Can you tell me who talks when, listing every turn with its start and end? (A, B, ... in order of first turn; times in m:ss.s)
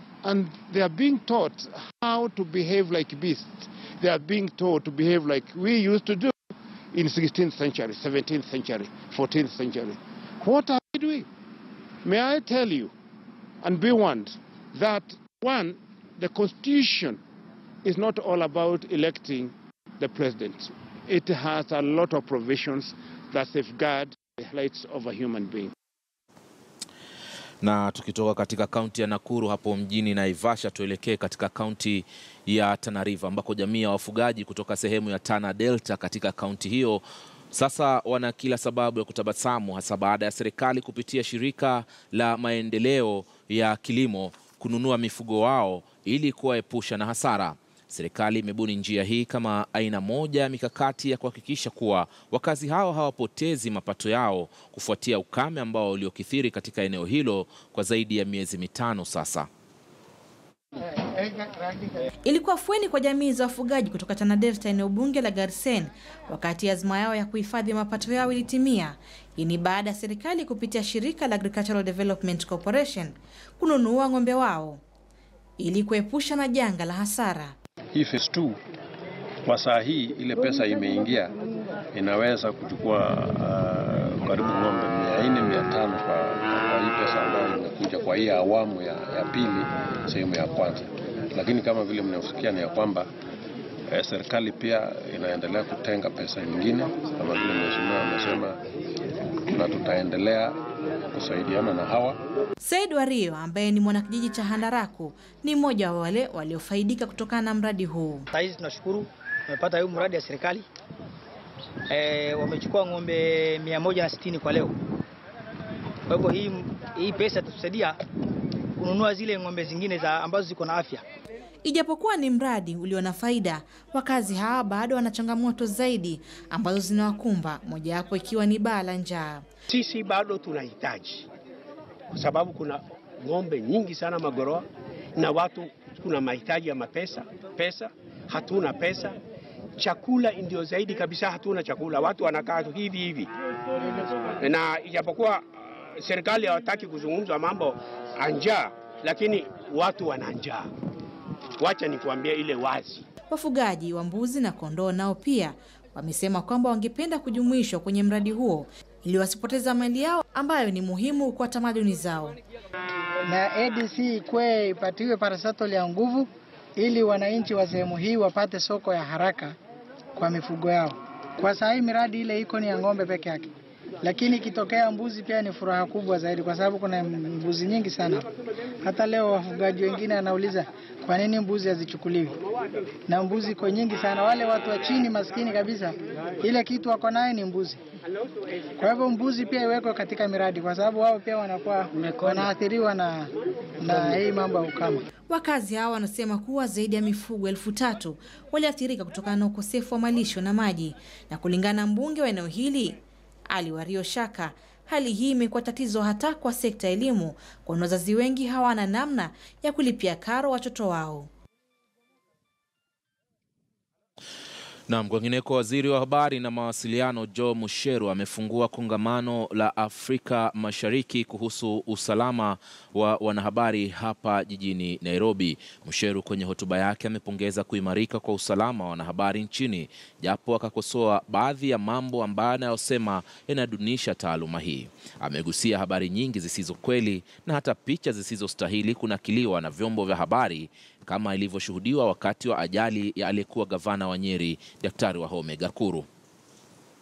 0:00.2-0:06.3 A
0:06.9-0:11.2 A
0:12.0-0:12.9 A
0:13.6-0:17.2 A
0:17.8-0:25.7 A
0:27.6-0:59.5 B
1:01.0-1:01.8 C
1:02.2-1:14.8 D
1:15.6-1:17.5 D
1:17.9-1:18.6 E
1:19.4-1:21.3 E
1:21.9-1:33.1 E
1:33.9-1:38.6 E
1:39.4-1:40.6 E
1:41.1-1:42.2 E
1:42.6-1:48.3 D
1:48.3-1:50.6 F
1:51.9-1:54.7 F
1:56.1-1:58.0 F
1:58.8-2:01.0 F
2:01.6-2:09.4 D
2:09.7-2:11.3 G
2:12.1-2:19.2 G
2:19.8-2:23.3 G
2:24.4-2:30.7 G
2:31.6-2:33.0 G
2:33.3-2:42.4 D
2:43.3-2:49.5 C
2:50.1-2:53.5 C
2:54.0-2:58.2 C
2:58.8-3:02.4 C
3:03.1-3:07.8 C
3:08.8-3:15.0 C
3:12.0-3:12.4 F
3:15.3-3:31.3 D
3:34.9-4:06.0 B